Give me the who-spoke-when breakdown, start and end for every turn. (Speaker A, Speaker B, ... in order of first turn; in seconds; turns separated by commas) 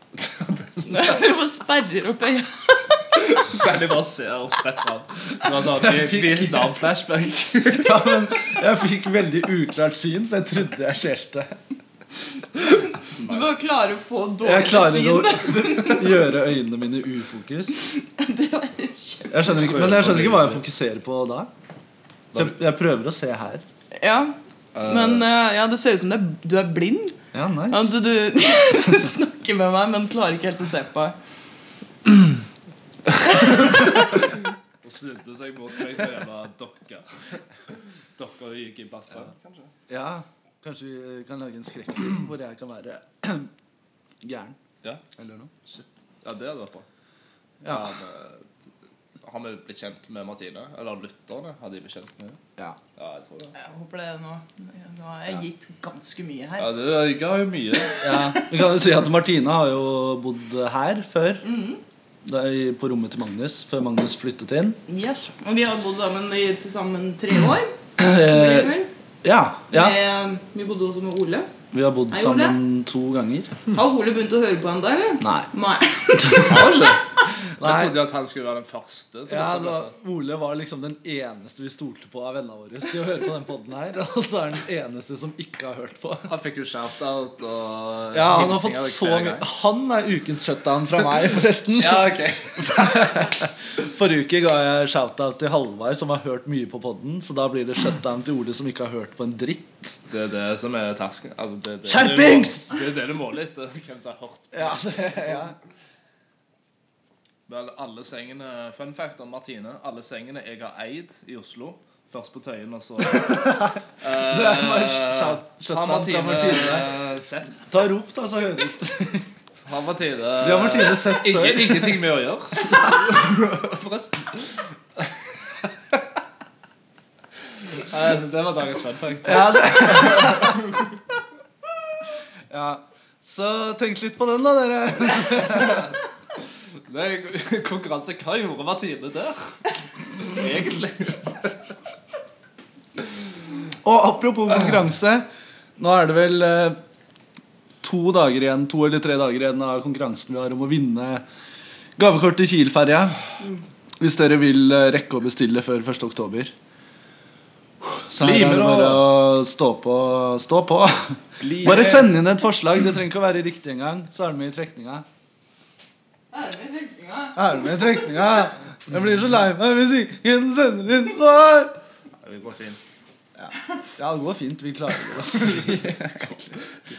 Speaker A: 0.2-0.8, Speaker B: 0.9-3.2, Speaker A: 3.2-8.0, Speaker C: 5.8-6.5, Speaker C: 7.7-11.6, Speaker A: 13.2-13.6, Speaker B: 13.2-16.2, Speaker C: 14.4-17.8, Speaker B: 17.9-19.7, Speaker C: 19.3-21.5, Speaker A: 19.5-20.6, Speaker C: 22.4-23.6, Speaker B: 23.9-27.2, Speaker A: 24.7-25.3, Speaker C: 27.3-28.0, Speaker B: 27.7-31.2, Speaker A: 34.8-37.4, Speaker A: 38.2-39.7, Speaker C: 39.9-43.5, Speaker C: 44.2-44.6, Speaker C: 45.2-45.5, Speaker A: 45.7-46.9, Speaker C: 47.6-47.9, Speaker A: 47.7-48.5, Speaker A: 49.2-52.4, Speaker A: 53.0-53.5, Speaker B: 53.6-56.7, Speaker A: 56.6-58.0, Speaker C: 58.0-61.5, Speaker B: 58.1-58.5, Speaker B: 61.4-61.8, Speaker C: 62.2-64.8, Speaker B: 64.9-67.7, Speaker C: 68.0-70.0, Speaker B: 68.3-68.9, Speaker B: 69.7-71.5, Speaker C: 71.7-73.5, Speaker B: 72.1-72.6, Speaker B: 73.7-76.7, Speaker C: 75.2-75.5, Speaker C: 76.2-76.5, Speaker A: 76.5-77.0, Speaker C: 77.6-78.0, Speaker A: 77.6-79.9, Speaker C: 79.3-86.3, Speaker A: 86.3-89.5, Speaker C: 88.1-100.0, Speaker A: 91.8-92.6, Speaker A: 100.1-105.4, Speaker C: 101.9-102.7, Speaker C: 104.5-105.6, Speaker A: 107.5-117.7, Speaker C: 113.2-116.9, Speaker C: 117.7-119.3, Speaker A: 119.7-125.1, Speaker C: 120.4-122.0, Speaker A: 127.9-130.6, Speaker C: 129.2-130.6, Speaker C: 132.5-135.9, Speaker A: 135.5-135.9, Speaker A: 136.9-139.6, Speaker A: 140.2-141.5, Speaker C: 143.8-145.3, Speaker C: 145.8-146.8, Speaker C: 147.8-151.2, Speaker C: 152.0-153.2, Speaker C: 154.0-156.5, Speaker C: 157.8-165.1, Speaker A: 158.2-159.1, Speaker A: 161.4-162.2, Speaker B: 166.3-167.8, Speaker C: 167.4-171.7, Speaker A: 172.2-172.8, Speaker C: 173.4-176.5, Speaker A: 175.5-176.0